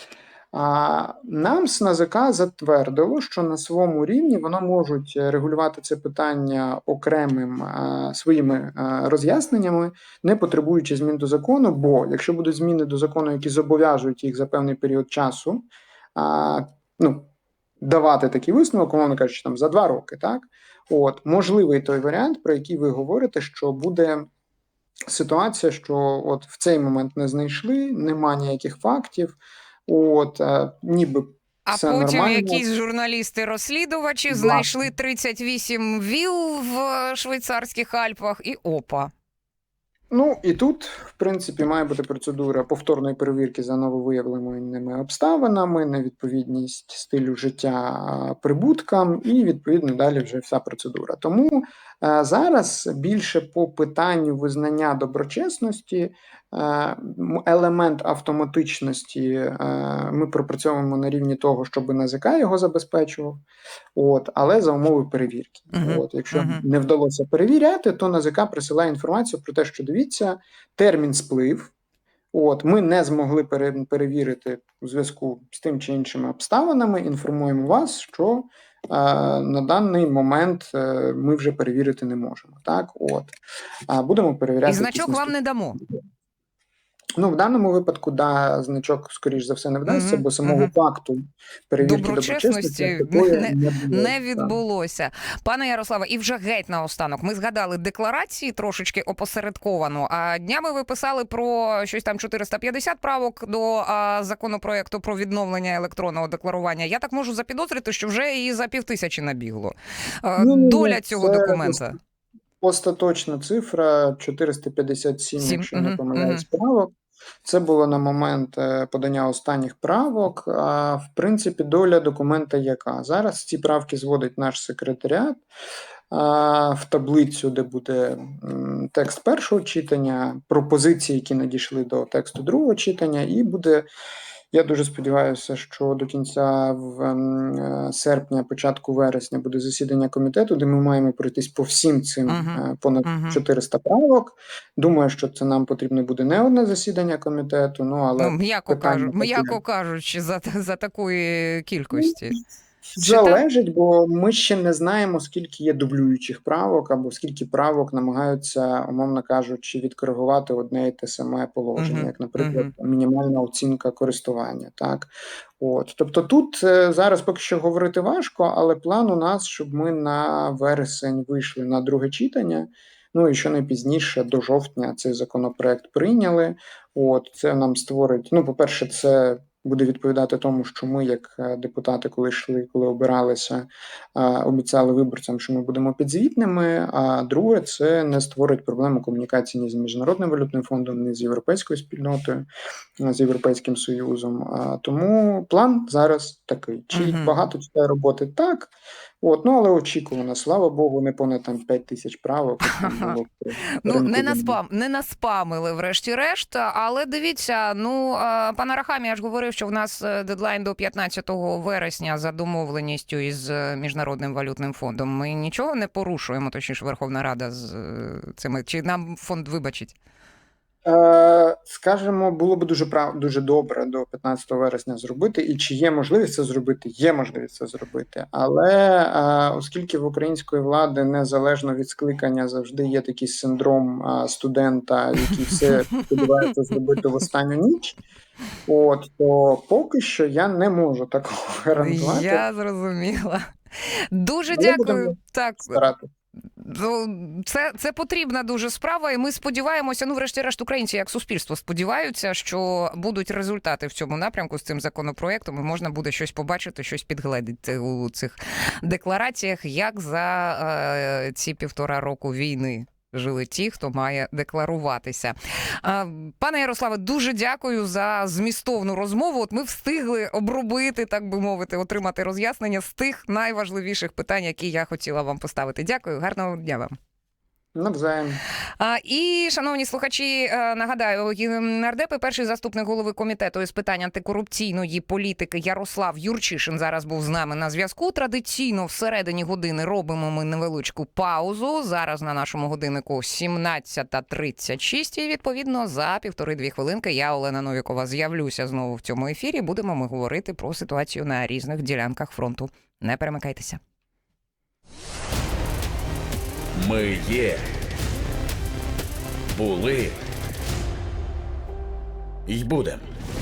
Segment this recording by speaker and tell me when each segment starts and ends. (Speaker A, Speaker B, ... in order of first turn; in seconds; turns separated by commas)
Speaker A: 0.5-17.3, Speaker A: 17.8-24.3, Speaker A: 25.1-32.6, Speaker B: 31.7-39.1, Speaker A: 34.3-34.8, Speaker A: 40.1-63.4, Speaker A: 63.9-71.7, Speaker B: 65.7-66.6, Speaker A: 72.3-83.3, Speaker A: 83.9-85.8, Speaker B: 84.7-85.8, Speaker A: 87.2-94.5, Speaker B: 89.9-90.7, Speaker B: 91.8-112.0, Speaker A: 110.4-111.9, Speaker A: 112.6-116.9, Speaker B: 115.4-116.4, Speaker A: 117.4-125.4, Speaker A: 126.1-133.9, Speaker A: 134.5-149.6, Speaker B: 142.3-143.4, Speaker B: 148.2-152.4, Speaker A: 151.9-152.4, Speaker A: 152.9-192.5, Speaker B: 153.0-153.4, Speaker B: 161.8-162.7, Speaker A: 193.0-204.6, Speaker B: 196.9-197.3, Speaker B: 202.6-203.2, Speaker B: 203.8-219.9, Speaker A: 220.8-238.0, Speaker A: 238.7-242.4, Speaker B: 241.8-245.8, Speaker A: 244.5-246.1, Speaker B: 246.6-276.9, Speaker A: 277.7-278.4, Speaker B: 278.8-303.8, Speaker C: 306.7-308.0, Speaker C: 309.5-310.2, Speaker C: 312.5-313.1